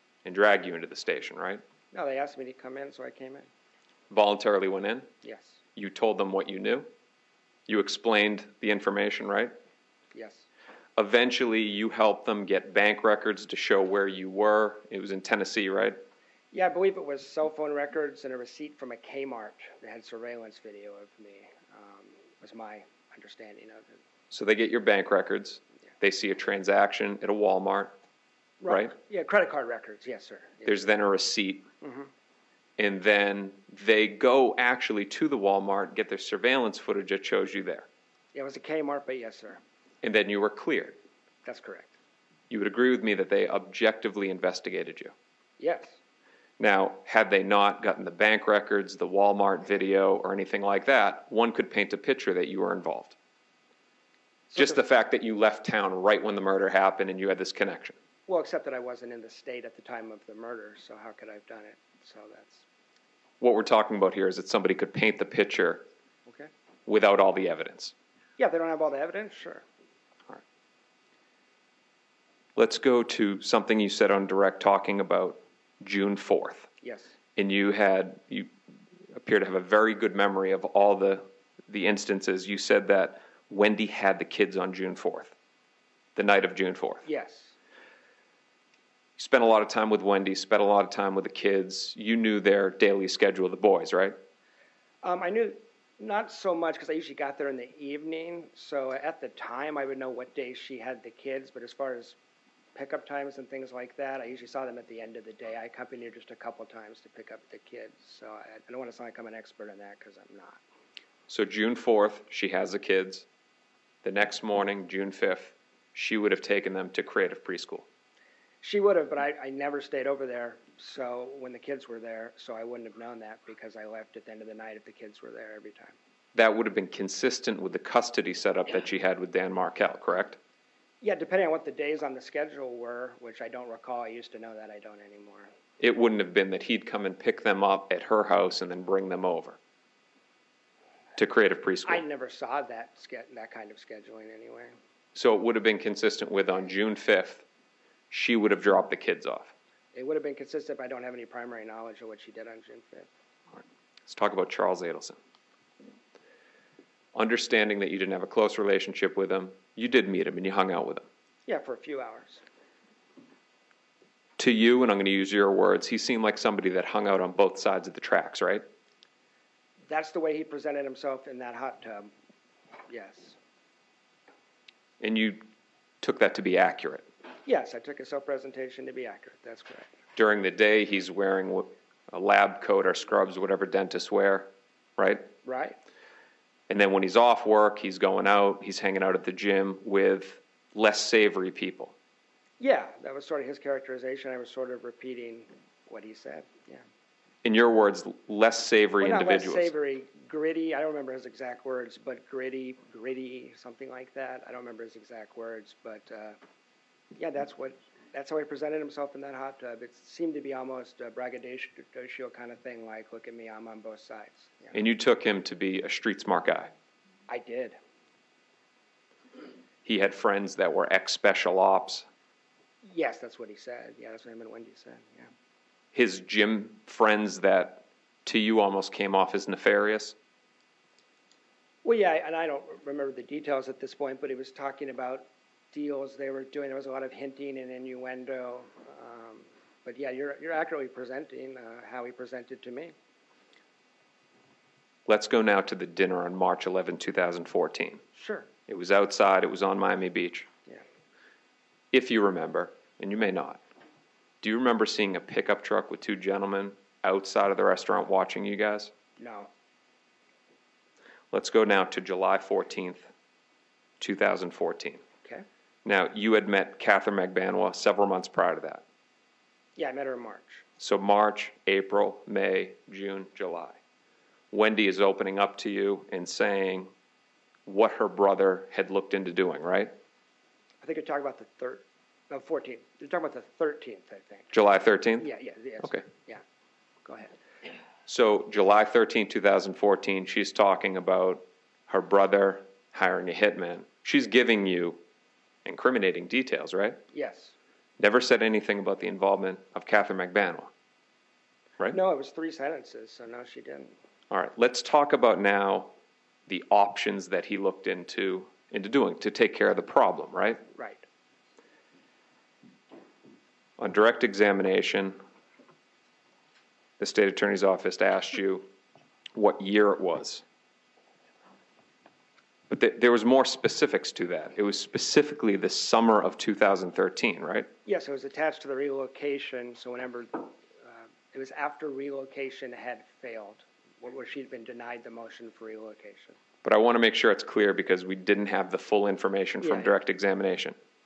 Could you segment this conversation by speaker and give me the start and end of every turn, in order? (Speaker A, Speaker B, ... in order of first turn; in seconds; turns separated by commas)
Speaker A: 0.2-1.6, Speaker B: 1.9-3.5, Speaker A: 4.1-5.1, Speaker B: 5.2-5.6, Speaker A: 5.8-6.9, Speaker A: 7.7-9.6, Speaker B: 10.1-10.5, Speaker A: 11.0-16.0, Speaker B: 16.5-24.0, Speaker A: 24.3-27.9, Speaker B: 28.6-30.8, Speaker A: 28.7-28.9, Speaker A: 30.7-31.7, Speaker B: 31.8-32.1, Speaker A: 32.8-37.9, Speaker B: 38.3-39.6, Speaker A: 40.0-41.0, Speaker B: 41.5-42.0, Speaker A: 42.5-45.1, Speaker B: 45.6-46.0, Speaker A: 46.6-53.2, Speaker B: 54.5-54.8, Speaker A: 54.5-58.0, Speaker B: 58.3-62.6, Speaker A: 63.4-65.9, Speaker B: 66.3-66.5, Speaker A: 66.9-67.9, Speaker B: 68.4-69.7, Speaker A: 72.6-76.7, Speaker B: 76.8-77.2, Speaker A: 77.4-78.5, Speaker A: 79.1-85.3, Speaker A: 86.2-87.0, Speaker B: 87.0-87.5, Speaker A: 89.2-94.2, Speaker B: 95.0-102.2, Speaker B: 102.8-110.6, Speaker A: 111.3-113.3, Speaker A: 114.0-117.9, Speaker B: 118.6-126.0, Speaker A: 126.3-130.4, Speaker B: 131.0-135.5, Speaker A: 135.8-139.6, Speaker A: 141.2-142.0, Speaker B: 141.8-144.8, Speaker A: 145.2-147.4, Speaker A: 148.1-149.5, Speaker B: 149.9-153.1, Speaker A: 153.6-155.2, Speaker A: 157.1-161.1, Speaker B: 161.5-162.4, Speaker A: 164.4-168.7, Speaker B: 169.8-172.1, Speaker B: 172.9-173.4, Speaker A: 175.0-175.5, Speaker A: 176.0-177.1, Speaker B: 177.5-179.9, Speaker A: 180.2-185.3, Speaker B: 185.4-185.8, Speaker A: 186.7-191.9, Speaker B: 192.6-196.8, Speaker A: 197.4-199.7, Speaker B: 199.0-206.4, Speaker B: 207.2-214.8, Speaker A: 214.7-216.7, Speaker B: 217.3-217.8, Speaker A: 219.8-222.1, Speaker B: 222.8-225.3, Speaker A: 225.9-230.2, Speaker B: 231.8-242.9, Speaker A: 245.1-248.0, Speaker B: 248.2-248.5, Speaker A: 248.7-250.5, Speaker A: 251.9-253.6, Speaker A: 254.4-258.9, Speaker B: 259.2-259.5, Speaker A: 261.3-263.1, Speaker A: 264.0-265.0, Speaker A: 265.9-268.8, Speaker B: 269.8-270.6, Speaker A: 270.8-273.8, Speaker A: 274.5-276.9, Speaker A: 277.7-279.9, Speaker B: 280.8-284.5, Speaker A: 284.5-285.3, Speaker B: 285.2-286.4, Speaker B: 287.1-287.4, Speaker A: 288.1-295.0, Speaker A: 295.6-297.0, Speaker B: 297.1-297.6, Speaker A: 298.0-300.7, Speaker B: 301.9-304.0, Speaker A: 304.3-305.9, Speaker A: 306.5-310.6, Speaker B: 310.7-311.0, Speaker A: 313.8-315.2, Speaker A: 317.0-318.7, Speaker A: 319.4-320.4, Speaker A: 322.7-327.7, Speaker B: 327.9-336.4, Speaker A: 336.6-340.8, Speaker B: 339.6-339.9